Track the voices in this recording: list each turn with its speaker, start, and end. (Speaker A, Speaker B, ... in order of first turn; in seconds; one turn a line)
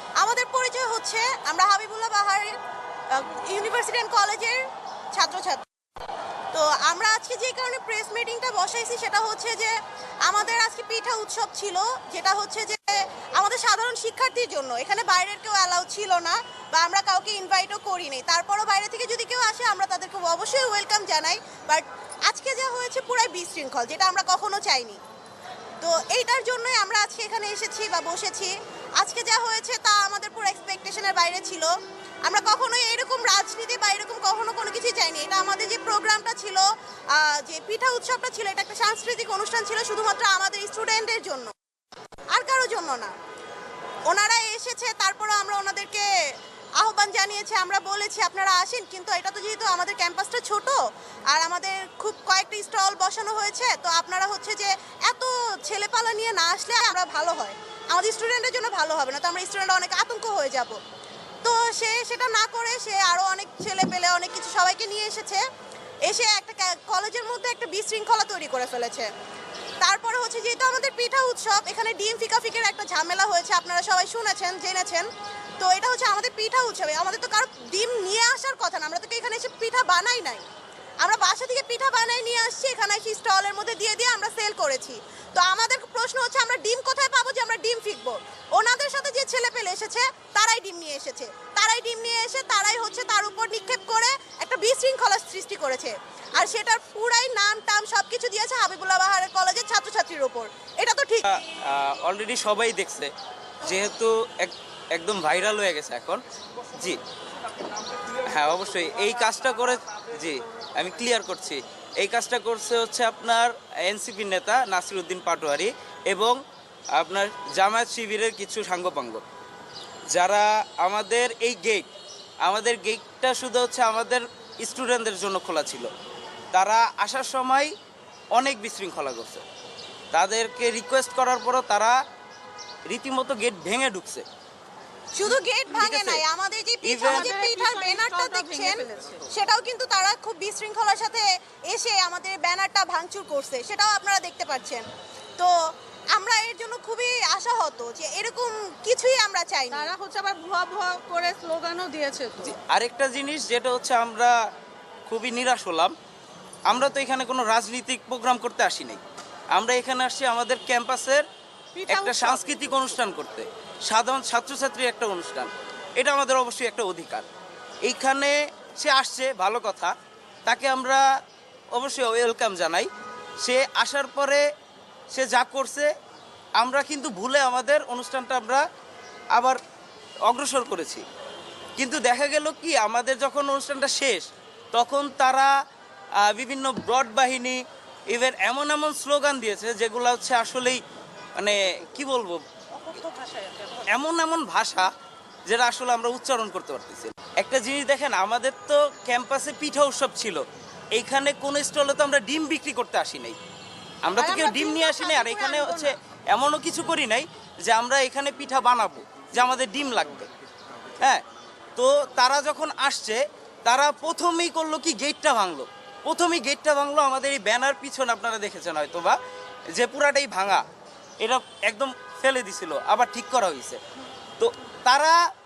Speaker A: 0.2-2.6
Speaker A: 3.1-5.7
Speaker A: 6.5-25.0
Speaker A: 25.8-41.5
Speaker A: 42.3-43.1
Speaker A: 44.1-46.1
Speaker A: 46.8-60.8
Speaker A: 61.4-65.4
Speaker A: 66.0-69.1
Speaker A: 69.8-75.1
Speaker A: 75.6-80.5
Speaker A: 81.0-101.3
Speaker B: 101.2-103.1
Speaker B: 103.6-107.0
Speaker B: 108.2-116.4
Speaker B: 116.9-119.2
Speaker B: 120.1-121.9
Speaker B: 122.4-125.9
Speaker B: 126.5-127.7
Speaker B: 128.4-129.4
Speaker B: 130.1-132.0
Speaker B: 132.9-134.2
Speaker A: 135.1-144.9
Speaker B: 135.8-136.2
Speaker B: 136.8-137.3
Speaker C: 137.1-139.3
Speaker A: 146.1-149.9
Speaker C: 149.7-152.6
Speaker B: 152.4-154.3
Speaker B: 155.1-155.9
Speaker B: 156.7-159.0
Speaker B: 159.5-161.3
Speaker C: 161.8-162.9
Speaker B: 161.9-167.3
Speaker B: 167.8-169.9
Speaker B: 170.5-171.1
Speaker B: 171.7-172.9
Speaker B: 173.4-174.4
Speaker B: 175.1-175.9
Speaker B: 176.6-178.6
Speaker B: 180.3-181.0
Speaker B: 181.8-185.5
Speaker B: 186.2-190.8
Speaker B: 191.4-192.4
Speaker C: 192.7-193.9
Speaker B: 193.9-194.9
Speaker B: 195.5-200.4
Speaker B: 200.9-203.4
Speaker B: 204.1-210.3
Speaker C: 204.2-206.0
Speaker B: 211.8-219.2
Speaker B: 219.7-220.6
Speaker B: 221.2-223.8
Speaker B: 224.4-225.2